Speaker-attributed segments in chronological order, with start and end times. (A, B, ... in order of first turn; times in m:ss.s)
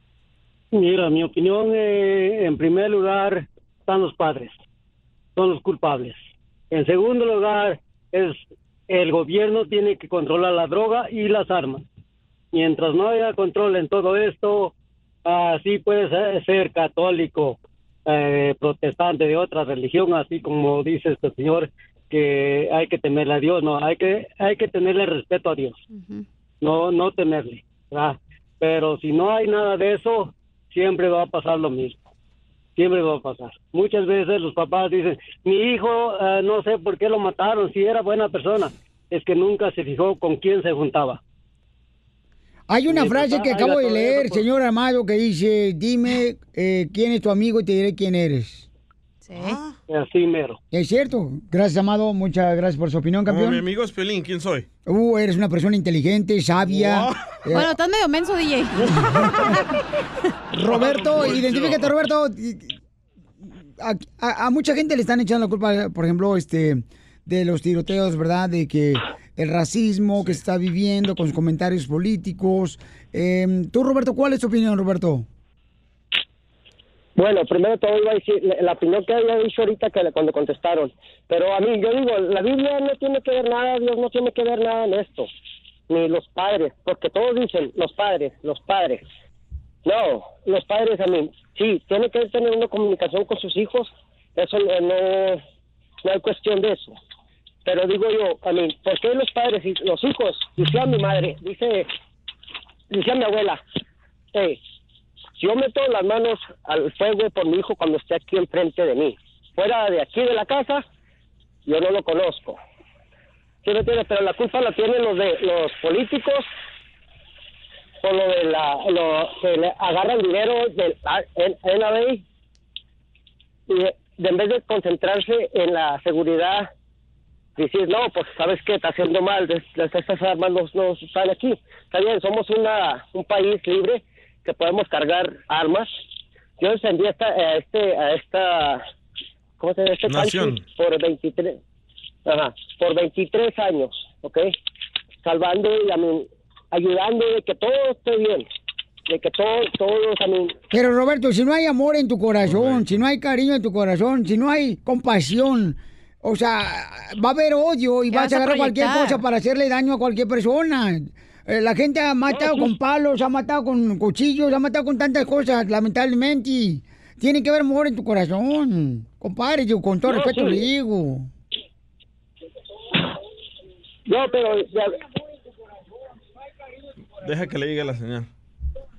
0:00.7-0:04.6 A
0:05.4-0:06.2 A
0:06.7-0:11.8 A
0:12.5-0:14.7 A
0:15.3-0:25.8 A
0:25.9-0:26.2 B
0:26.6-0:32.0 A
0:32.8-0:41.2 A
0:42.7-0:48.7 C
0:42.9-0:44.5 A
0:49.2-0:49.6 B
0:49.3-0:49.7 D
0:49.9-0:50.6 A
0:50.7-0:53.6 C
0:53.3-0:54.7 D
0:54.9-0:57.7 C
0:56.7-0:57.2 D
0:57.5-0:59.6 B
0:58.9-0:59.2 D
1:00.5-1:02.8 C
1:00.6-1:02.0 D
1:03.5-1:15.3 C
1:17.2-1:25.3 E
1:25.9-1:29.0 E
1:29.8-1:35.4 E
1:36.0-1:37.0 E
1:37.7-1:41.9 E
1:42.9-1:43.6 E
1:44.3-1:44.6 E
1:45.4-1:50.8 E
1:51.7-1:52.6 E
1:53.6-1:56.5 E
1:58.0-2:02.2 E
2:03.7-2:06.7 E
2:07.6-2:15.9 E
2:16.6-2:18.8 E
2:19.6-2:21.6 E
2:20.1-2:20.6 D
2:22.3-2:24.5 E
2:25.2-2:28.5 E
2:29.1-2:30.5 E
2:30.7-2:51.3 C
2:32.4-2:32.9 D
2:38.1-2:39.2 B
2:50.1-2:50.6 E
2:54.1-2:55.0 E
2:57.2-2:58.3 D